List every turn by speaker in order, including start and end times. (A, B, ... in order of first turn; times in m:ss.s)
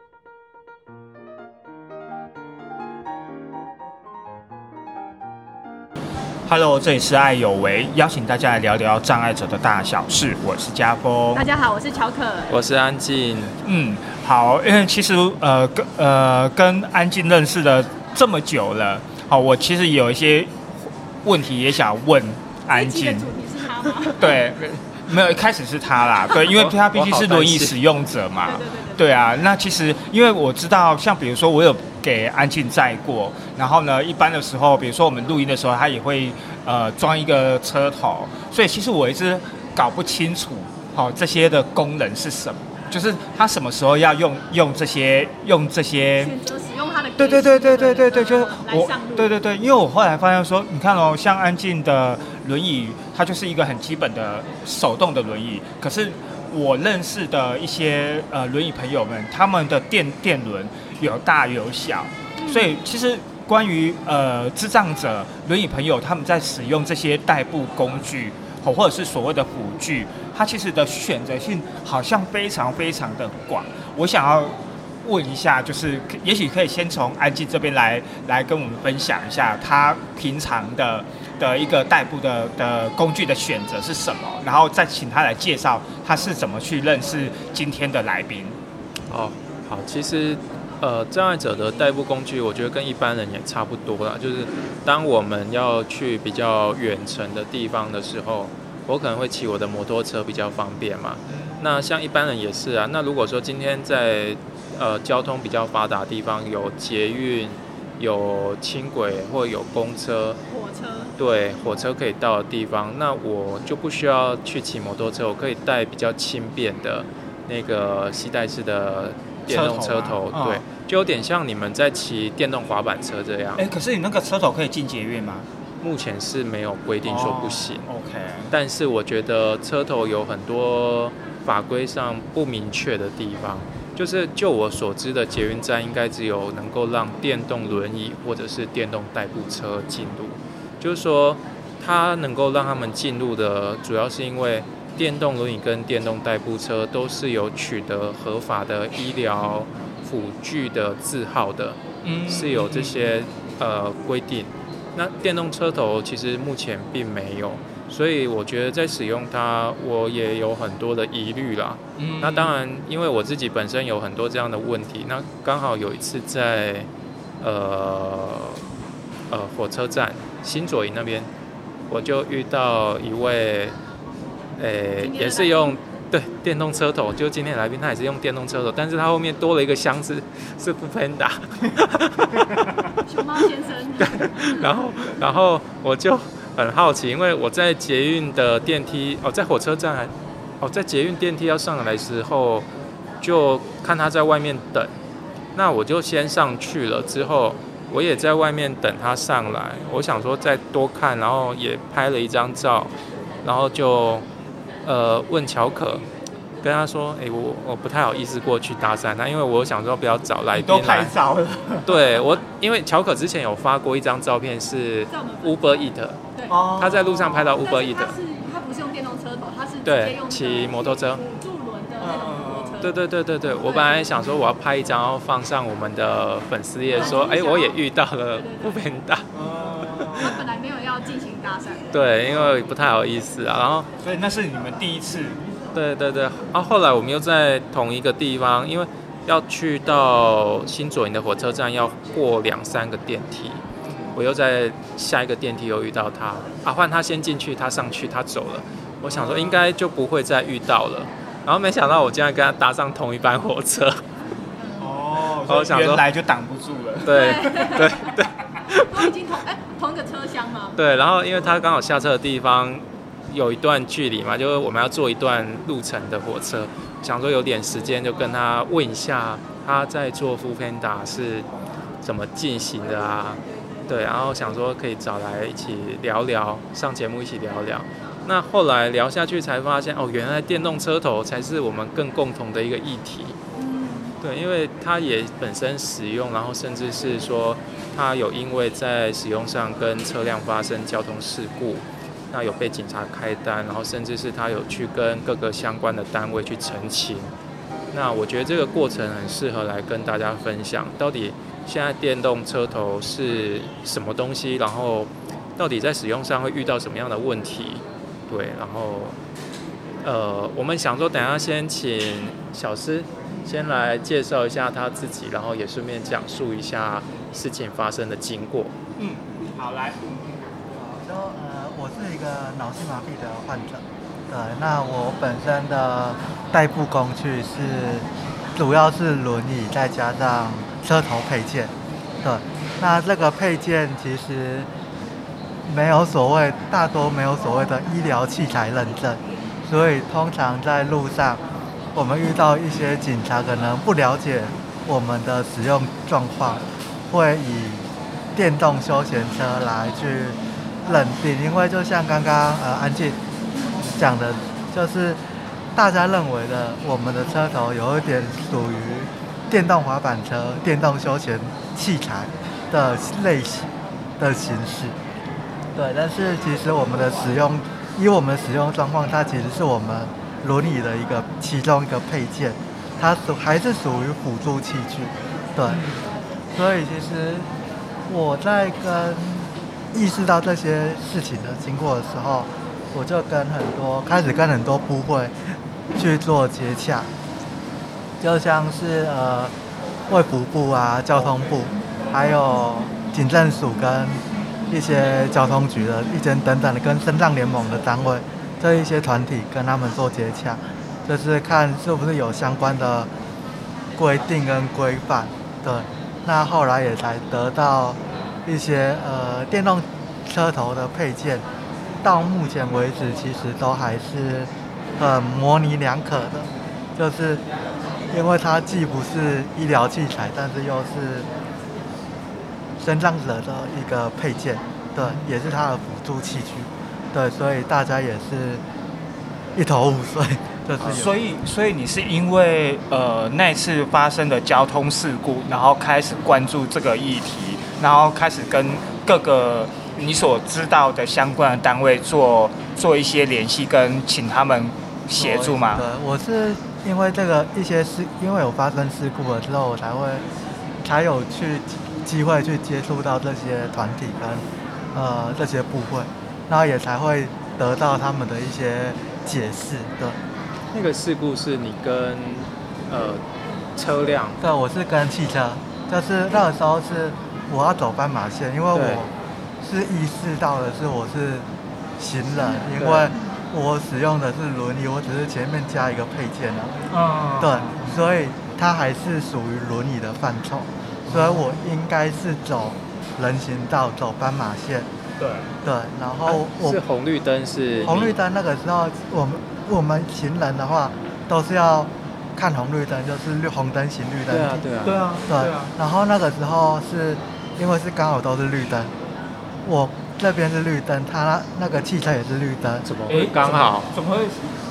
0:06.4-0:11.5 A
0:11.3-0:12.6 B
0:12.5-0:13.5 C
0:13.6-0:20.6 A
0:21.2-0:23.3 A
0:22.7-0:24.4 B
0:24.1-0:46.3 A
0:26.5-0:27.8 C
0:28.4-0:29.1 B
0:46.2-0:49.3 B
0:47.2-1:28.6 A
1:02.4-1:02.7 B
1:29.1-1:50.4 C
1:50.5-1:51.1 B
1:51.2-2:03.6 C
1:59.5-2:00.6 A
2:03.6-2:05.5 A
2:05.8-2:07.9 C
2:07.0-2:08.5 A
2:08.5-2:46.9 C
2:32.0-2:33.2 A
2:42.0-2:42.5 A
2:47.4-2:48.6 C
2:49.3-2:51.3 C
2:51.9-2:53.8 C
2:54.6-3:02.8 C
2:55.0-2:55.8 B
3:03.0-3:04.7 B
3:04.0-3:12.7 C
3:13.2-3:14.9 C
3:15.5-3:22.9 C
3:23.4-3:24.2 C
3:24.8-3:26.0 C
3:26.6-3:31.1 C
3:30.5-3:32.0 A
3:31.8-3:36.2 C
3:35.1-3:36.6 B
3:36.5-3:37.6 A
3:36.8-3:38.1 C
3:37.6-3:43.0 B
3:39.8-3:41.2 C
3:42.0-3:42.9 A
3:42.8-3:49.2 C
3:43.6-3:44.1 B
3:46.9-3:47.8 B
3:48.3-3:48.8 B
3:49.3-3:50.4 A
3:49.8-3:50.3 C
3:50.2-3:51.9 B
3:51.9-3:53.9 C
3:52.3-3:52.6 A
3:54.0-3:55.4 A
3:55.7-4:14.0 C
4:03.9-4:04.1 A
4:09.1-4:09.6 A
4:14.8-4:17.8 A
4:15.5-4:16.0 C
4:17.0-4:19.1 C
4:17.1-4:18.1 B
4:18.9-4:20.8 B
4:20.8-4:31.5 C
4:32.0-4:43.4 C
4:43.6-4:44.2 B
4:44.2-4:57.3 C
4:57.9-5:09.2 C
5:10.0-5:18.7 C
5:19.0-5:20.2 A
5:20.8-5:34.7 D
5:35.6-5:41.4 D
5:41.9-5:53.2 D
5:53.8-5:55.2 D
5:55.7-6:05.0 D
6:05.7-6:15.8 D
6:15.7-6:16.0 A
6:16.5-6:17.5 D
6:18.1-6:27.1 D
6:28.2-6:29.5 D
6:30.1-6:43.1 D
6:44.0-6:51.4 D
6:52.0-6:57.4 D
6:58.1-7:01.3 D
7:02.8-7:08.6 D
7:05.0-7:05.3 A
7:09.6-7:11.1 D
7:10.8-7:25.8 A
7:25.2-7:30.2 D
7:30.8-7:40.2 D
7:40.7-7:43.2 C
7:43.8-7:44.4 C
7:44.4-7:49.1 D
7:48.7-7:49.1 C
7:49.6-7:51.5 D
7:52.0-7:56.9 D
7:52.8-7:53.1 C
7:56.9-7:58.0 A
7:57.4-8:04.9 D
8:01.1-8:01.4 A
8:05.2-8:05.5 A
8:05.6-8:06.8 D
8:06.2-8:08.2 C
8:07.8-8:14.7 D
8:14.3-8:15.0 C
8:14.8-8:15.7 A
8:15.2-8:18.9 D
8:19.6-8:22.8 D
8:22.8-8:23.9 C
8:23.1-8:24.5 A